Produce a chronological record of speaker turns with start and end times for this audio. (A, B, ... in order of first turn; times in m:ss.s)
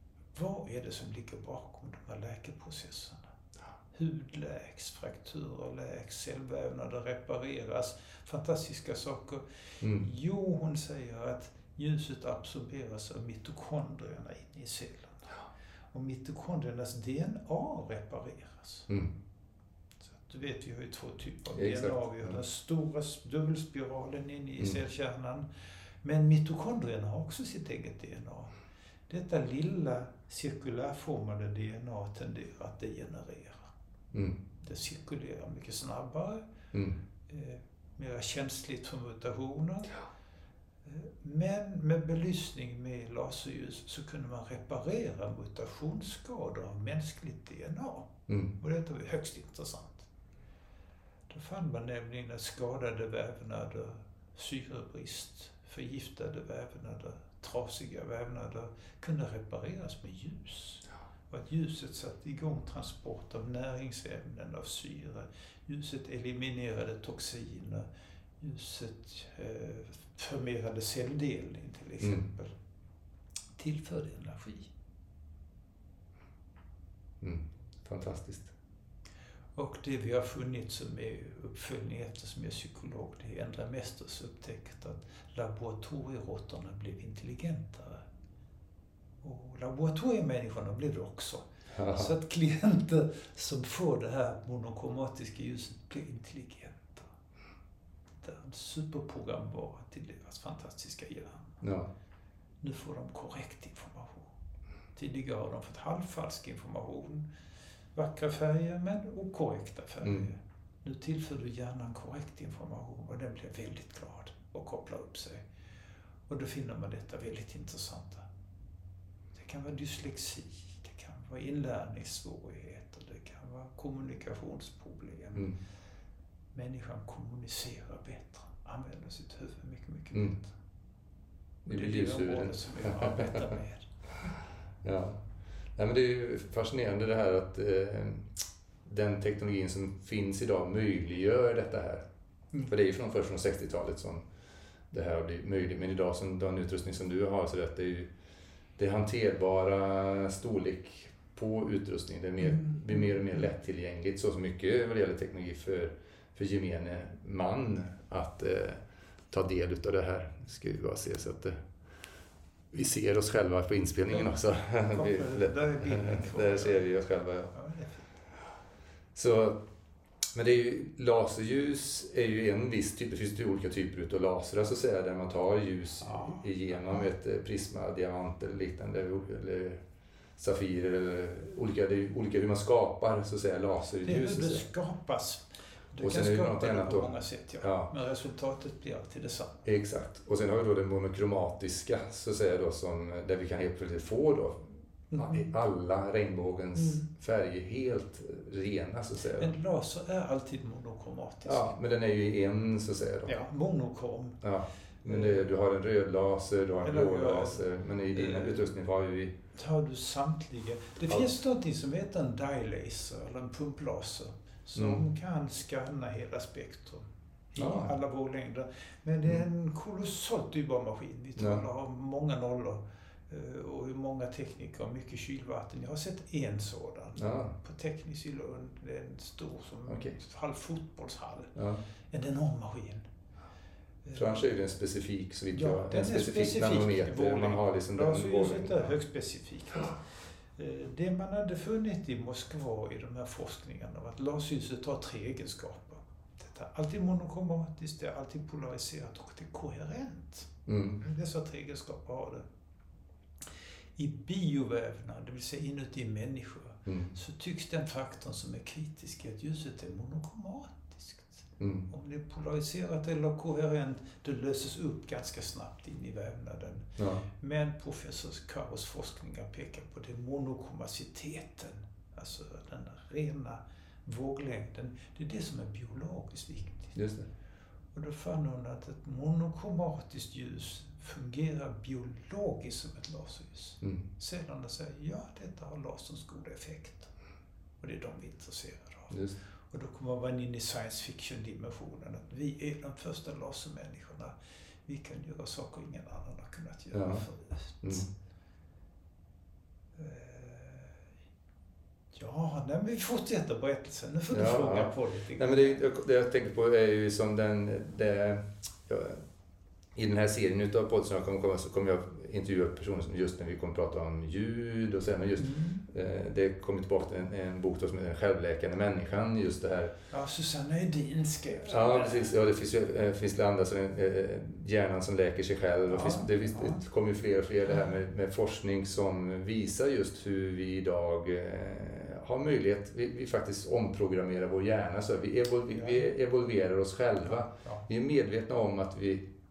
0:00.3-0:03.3 A
0:03.9-0:15.4 A
0:15.9-0:18.9 A
0:20.0-0:25.4 A
0:21.5-0:22.4 B
0:26.0-0:28.5 A
0:29.1-0:33.7 A
0:34.1-0:34.4 B
0:34.6-0:36.4 A
0:36.7-0:37.0 B
0:37.3-0:39.9 A
0:40.8-0:50.1 A
0:51.3-1:07.9 A
1:08.4-1:12.5 A
1:13.6-1:14.7 A
1:17.2-1:18.5 B
1:19.6-1:28.0 A
1:29.2-1:37.1 A
1:31.7-1:32.1 B
1:38.2-1:41.6 A
1:41.6-1:41.9 B
1:42.6-1:44.3 A
1:44.9-1:47.3 A
1:47.9-1:55.4 A
1:56.3-1:58.3 A
1:59.3-2:05.5 A
2:06.5-2:10.5 A
2:11.6-2:13.9 A
2:11.7-2:13.5 B
2:14.8-2:15.2 B
2:15.8-2:22.0 B
2:22.6-2:24.2 B
2:24.9-2:28.1 B
2:28.8-2:41.6 B
2:32.4-2:33.4 A
2:42.7-2:47.5 B
2:44.8-2:46.9 A
2:47.5-2:48.2 A
2:49.1-2:49.6 B
2:50.3-2:59.8 B
2:56.0-2:56.4 A
3:00.4-3:04.6 B
3:04.0-3:09.6 A
3:06.0-3:07.9 B
3:09.6-3:19.5 B
3:15.1-3:15.5 A
3:16.7-3:17.0 A
3:19.4-3:21.7 A
3:21.4-3:23.3 B
3:23.3-3:24.4 A
3:24.4-3:29.3 B
3:25.1-3:25.5 A
3:26.8-3:28.6 A
3:29.5-3:51.5 A
3:34.7-3:35.0 B
3:37.6-3:37.9 B
3:41.4-3:41.6 B
3:47.2-3:47.5 B
3:49.9-3:50.2 B
3:51.6-3:51.8 B
3:52.1-3:53.0 A
3:54.1-3:58.9 B
3:55.5-4:00.0 A
4:00.6-4:12.4 A
4:10.7-4:11.0 B
4:14.0-4:37.0 A
4:16.9-4:17.1 B
4:21.6-4:21.9 B
4:27.0-4:27.2 B
4:37.0-4:37.3 B
4:37.9-4:47.1 A
4:47.8-4:49.2 A
4:49.1-4:49.4 B
4:49.7-4:54.3 A
4:54.8-4:58.1 A
4:56.9-4:57.2 B
4:59.9-5:00.9 A
5:02.1-5:05.8 A
5:04.3-5:09.2 B
5:10.0-5:19.9 B
5:15.4-5:15.8 A
5:20.1-5:22.3 A
5:21.6-5:39.3 B
5:25.9-5:26.8 A
5:35.7-5:36.0 A
5:37.2-5:37.8 A